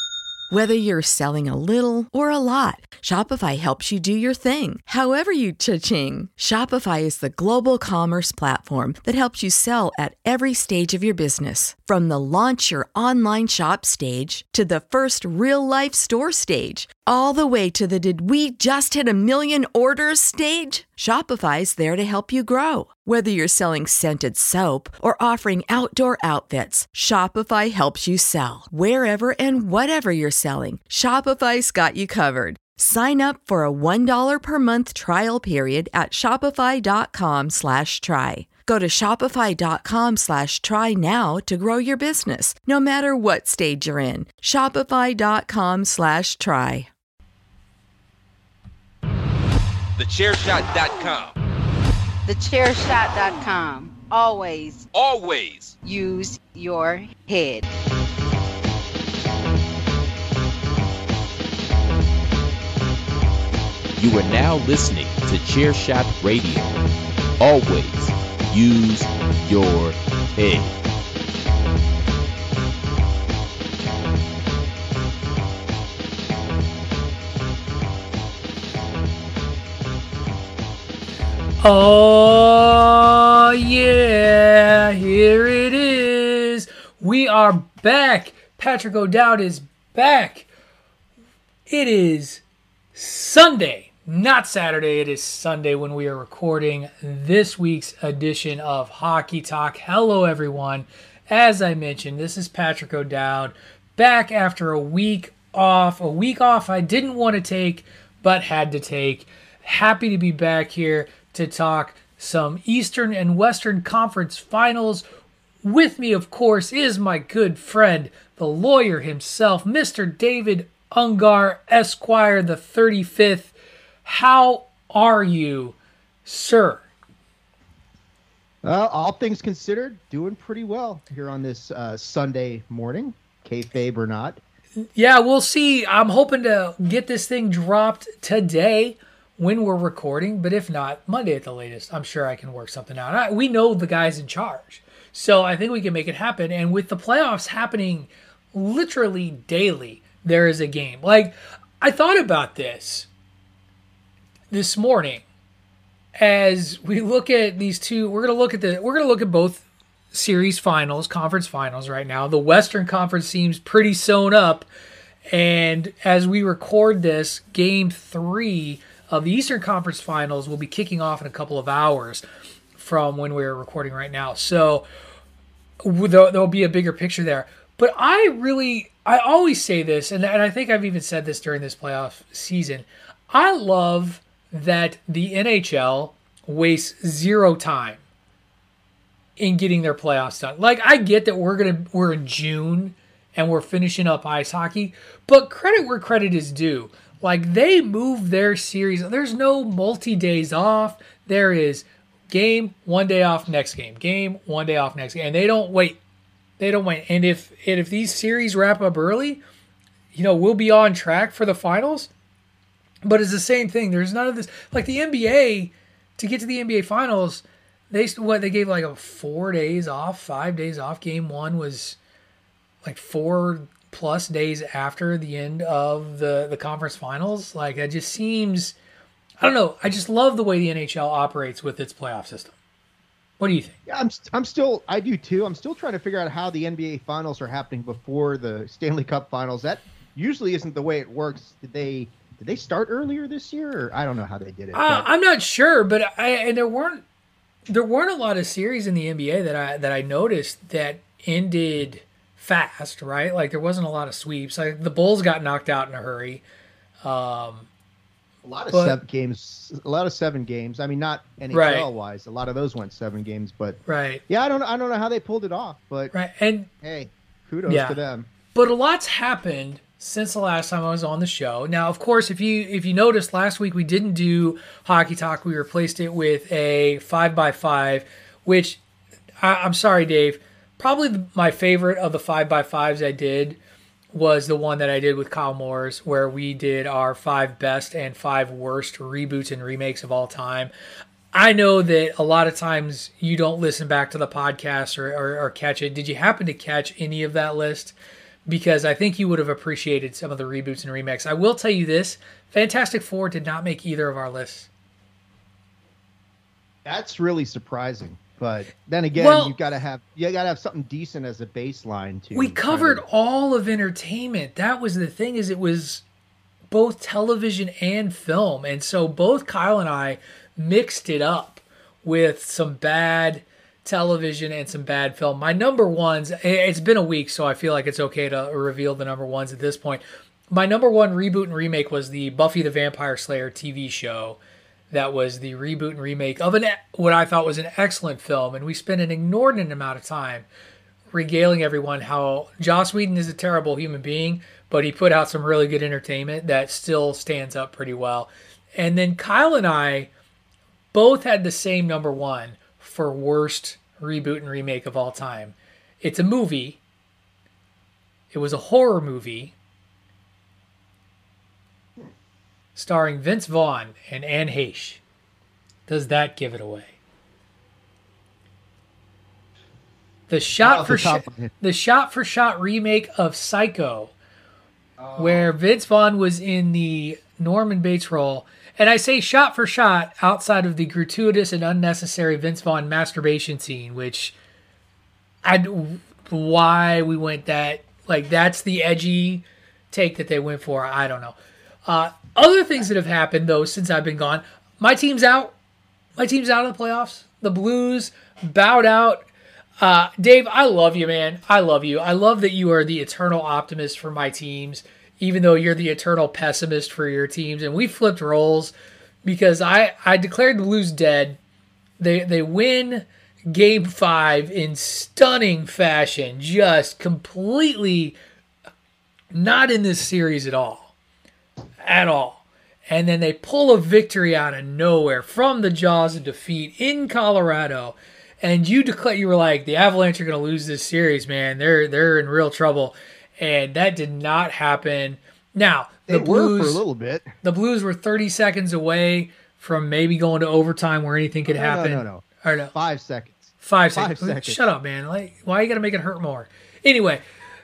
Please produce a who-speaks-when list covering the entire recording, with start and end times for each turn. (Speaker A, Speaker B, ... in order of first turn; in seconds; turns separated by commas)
Speaker A: 0.5-46.9, Speaker B: 50.0-51.3, Speaker C: 52.3-54.9, Speaker B: 54.9-55.8, Speaker C: 55.8-57.7, Speaker D: 64.0-66.8, Speaker D: 67.4-70.8, Speaker E: 81.6-90.5, Speaker E: 91.7-92.4, Speaker E: 93.0-115.0, Speaker E: 115.6-123.5, Speaker E: 124.0-126.8, Speaker F: 128.6-134.4, Speaker E: 134.9-153.1, Speaker E: 154.5-155.2, Speaker E: 156.2-164.7, Speaker E: 165.3-172.2, Speaker E: 172.8-174.9, Speaker E: 175.8-188.0, Speaker E: 189.4-206.0, Speaker E: 206.6-209.4, Speaker E: 210.1-212.1, Speaker E: 213.0-222.0, Speaker E: 222.8-228.8, Speaker E: 229.4-232.5, Speaker E: 233.4-233.8, Speaker F: 233.9-245.1, Speaker E: 244.7-247.0, Speaker E: 247.7-256.4, Speaker E: 257.0-257.7, Speaker F: 258.4-266.1, Speaker E: 258.7-259.0, Speaker E: 261.5-261.9, Speaker E: 263.9-264.2, Speaker E: 266.1-266.7, Speaker F: 266.8-268.3, Speaker E: 267.7-268.0, Speaker E: 268.5-278.8, Speaker E: 279.4-283.6, Speaker E: 284.1-290.7, Speaker E: 291.3-297.9, Speaker E: 298.5-304.7, Speaker F: 306.9-313.0, Speaker E: 309.2-309.6, Speaker E: 312.3-316.0, Speaker E: 316.7-334.4, Speaker E: 334.9-340.5, Speaker E: 341.1-350.1, Speaker E: 350.9-356.8, Speaker E: 358.3-359.5, Speaker E: 362.8-365.0, Speaker E: 365.9-367.0, Speaker E: 370.3-374.1, Speaker F: 370.6-371.5, Speaker F: 375.0-375.5, Speaker E: 375.2-384.4, Speaker E: 385.4-395.5, Speaker E: 396.2-399.3, Speaker E: 399.8-408.7, Speaker E: 409.2-411.4, Speaker E: 412.0-418.2, Speaker E: 419.3-420.9, Speaker E: 421.8-436.8, Speaker F: 436.1-437.3, Speaker E: 437.4-442.7, Speaker F: 441.5-444.7, Speaker E: 443.6-447.2